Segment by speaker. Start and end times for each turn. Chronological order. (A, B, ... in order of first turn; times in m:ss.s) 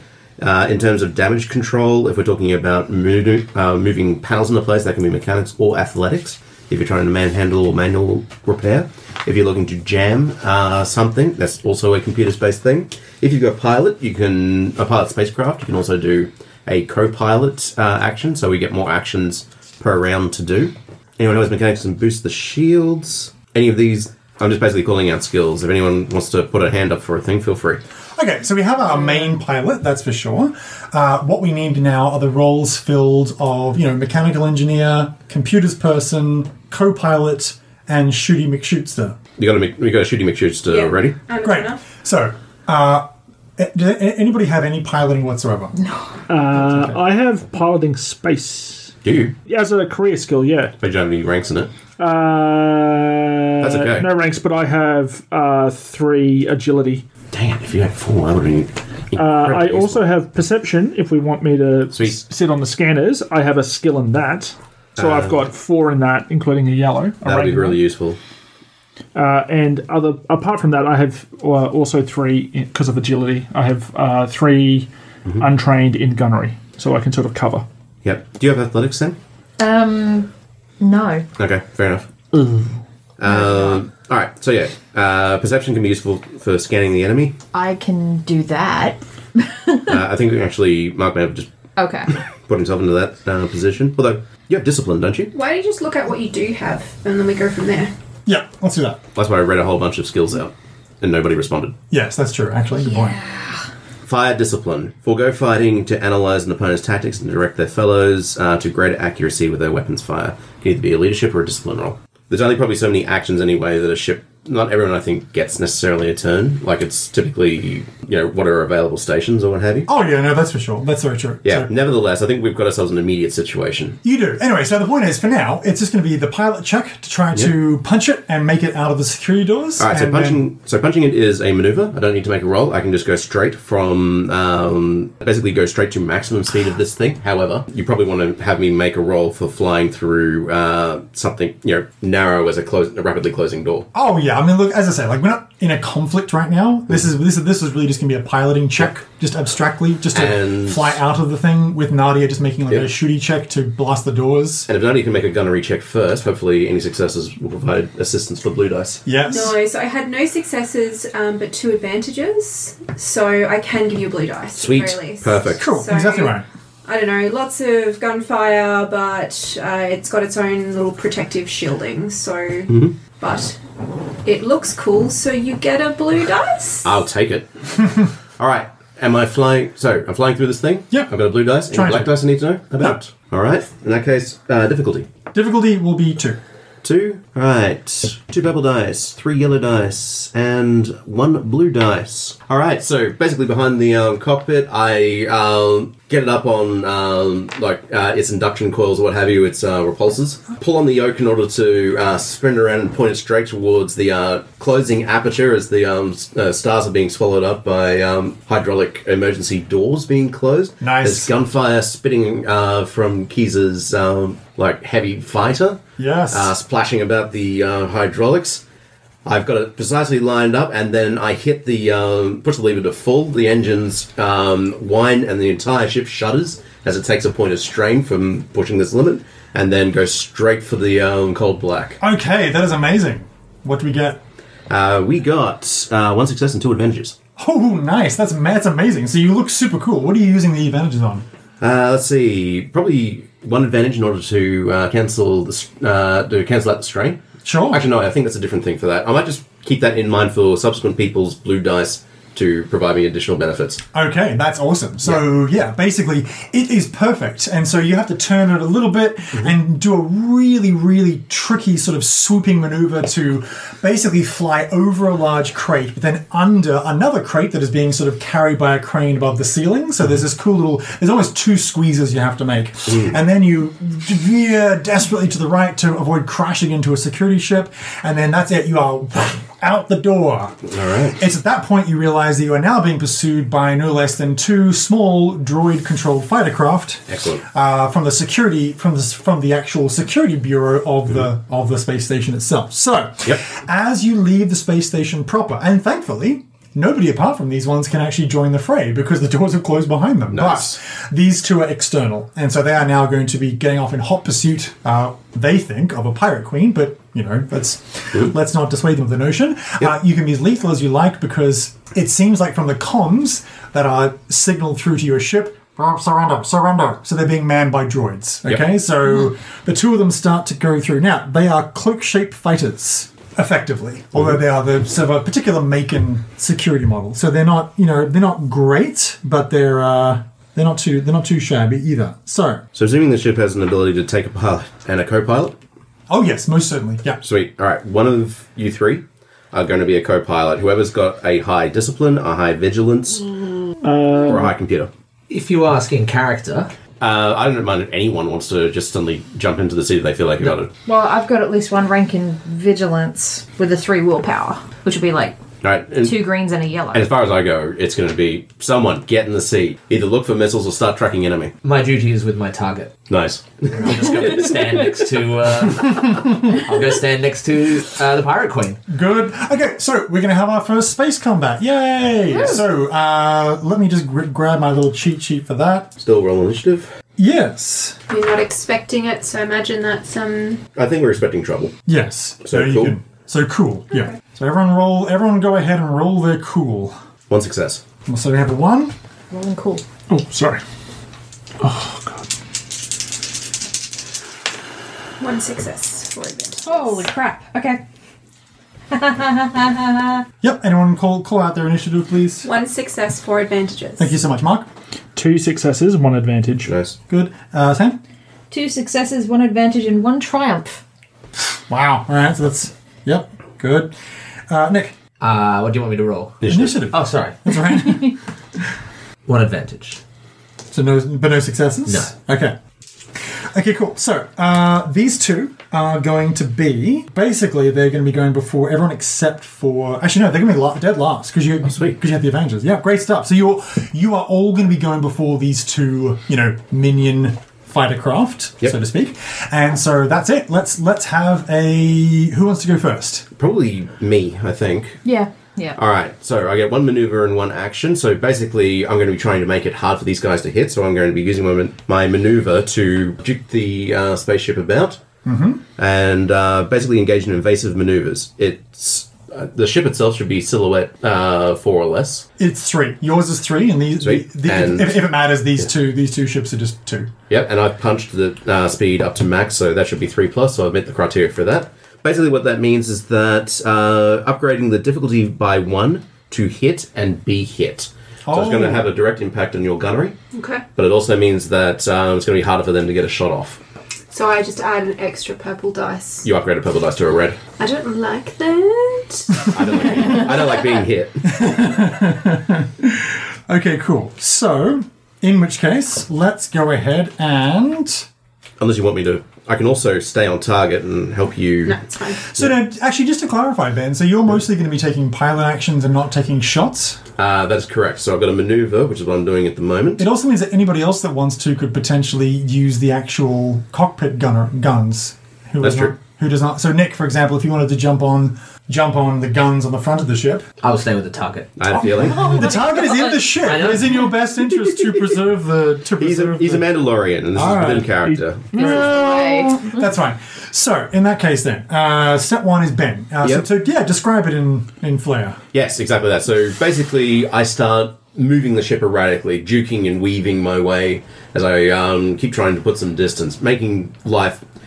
0:00.4-0:27.8 A
0:28.1-0:39.2 B
0:39.4-0:41.1 A
0:40.7-0:41.8 C
0:41.4-0:45.8 B
0:46.3-0:48.9 D
0:46.5-0:47.0 B
0:49.0-0:49.3 A
0:49.4-0:50.7 D
0:50.8-0:51.7 A
0:52.0-0:57.0 D
0:53.6-0:54.1 A
0:57.3-1:00.1 A
0:59.1-1:07.8 D
1:01.9-1:02.2 A
1:05.0-1:05.4 A
1:07.2-1:08.2 A
1:09.1-1:17.6 D
1:18.0-1:19.2 A
1:19.6-1:21.2 E
1:21.4-1:22.1 A
1:23.2-1:27.3 A
1:27.5-1:29.9 E
1:29.9-1:31.5 A
1:31.8-1:32.1 E
1:32.1-1:35.3 A
1:35.3-1:37.9 C
1:38.2-1:39.0 B
1:39.1-1:41.7 A
1:41.9-1:43.2 B
1:43.0-1:43.6 E
1:44.0-1:59.9 A
1:59.9-2:01.7 B
2:01.4-2:04.0 A
2:04.0-2:10.4 B
2:09.8-2:23.9 A
2:23.9-2:34.7 B
2:30.1-2:31.0 A
2:34.7-2:39.0 A
2:39.0-2:39.5 B
2:39.3-2:53.6 C
2:44.6-2:45.6 A
2:45.6-2:46.4 B
2:52.7-2:52.9 A
2:54.2-2:56.9 C
2:56.8-3:05.1 A
3:00.9-3:02.2 B
3:05.3-3:06.4 B
3:06.8-3:38.6 A
3:30.8-3:31.3 B
3:36.0-3:36.5 B
3:39.2-3:52.0 A
3:52.0-3:54.2 B
3:54.7-3:57.2 A
3:57.4-4:01.2 B
4:01.6-4:13.8 A
4:07.4-4:07.8 B
4:13.9-5:32.6 B
4:32.9-4:33.1 A
4:40.7-4:41.2 A
4:47.1-4:47.4 A
5:00.3-5:00.7 A
5:32.7-5:35.6 A
5:36.1-5:37.2 B
5:37.2-5:43.3 A
5:43.8-5:44.5 D
5:44.1-5:44.9 A
5:45.3-5:46.7 F
5:47.0-5:50.7 A
5:50.8-5:55.4 E
5:55.6-5:56.2 A
5:56.0-5:57.1 E
5:56.9-6:01.5 A
6:01.6-6:02.9 F
6:03.1-6:04.5 A
6:03.7-6:08.8 F
6:08.9-6:15.9 B
6:16.0-6:16.9 A
6:17.2-6:18.0 B
6:18.1-6:20.6 C
6:20.7-6:21.7 A
6:21.9-6:27.0 B
6:22.4-6:22.9 A
6:23.9-6:24.2 C
6:27.3-6:27.8 A
6:28.0-6:28.9 B
6:29.3-6:29.8 E
6:30.1-6:30.6 D
6:31.6-6:32.2 D
6:35.2-6:37.0 C
6:36.6-6:37.8 E
6:38.9-6:40.2 E
6:40.4-6:42.5 B
6:42.4-6:44.1 C
6:44.0-6:44.7 B
6:45.1-6:46.7 D
6:46.6-6:47.0 A
6:47.1-6:48.0 B
6:48.5-6:50.8 E
6:51.7-6:53.9 B
6:54.5-6:54.9 B
6:55.2-6:57.5 F
6:56.4-6:56.9 A
6:56.5-6:58.2 B
6:59.2-7:00.0 F
7:00.7-7:02.6 B
7:01.9-7:02.1 F
7:03.5-7:23.2 B
7:11.6-7:12.0 A
7:23.4-7:25.0 A
7:25.0-7:25.8 E
7:25.7-7:35.0 A
7:35.2-7:35.6 B
7:35.8-7:42.2 A
7:42.4-7:47.1 B
7:44.0-7:45.0 A
7:47.3-8:00.2 A
7:58.2-7:58.9 B
8:00.3-8:00.6 C
8:00.8-8:03.6 A
8:04.1-8:06.3 C
8:06.2-8:07.4 A
8:07.6-8:09.5 C
8:09.5-8:11.6 A
8:11.2-8:18.0 B
8:18.6-8:21.8 A
8:21.6-8:22.2 C
8:22.3-8:27.0 B
8:27.2-8:30.0 A
8:30.0-8:40.5 B
8:35.6-8:35.9 A
8:40.6-8:41.8 F
8:41.6-8:42.4 A
8:41.8-8:46.7 B
8:43.4-8:44.1 F
8:46.0-8:48.7 A
8:47.3-8:47.9 B
8:48.0-8:48.8 D
8:48.5-8:55.4 B
8:48.5-8:49.8 E
8:55.5-9:04.4 A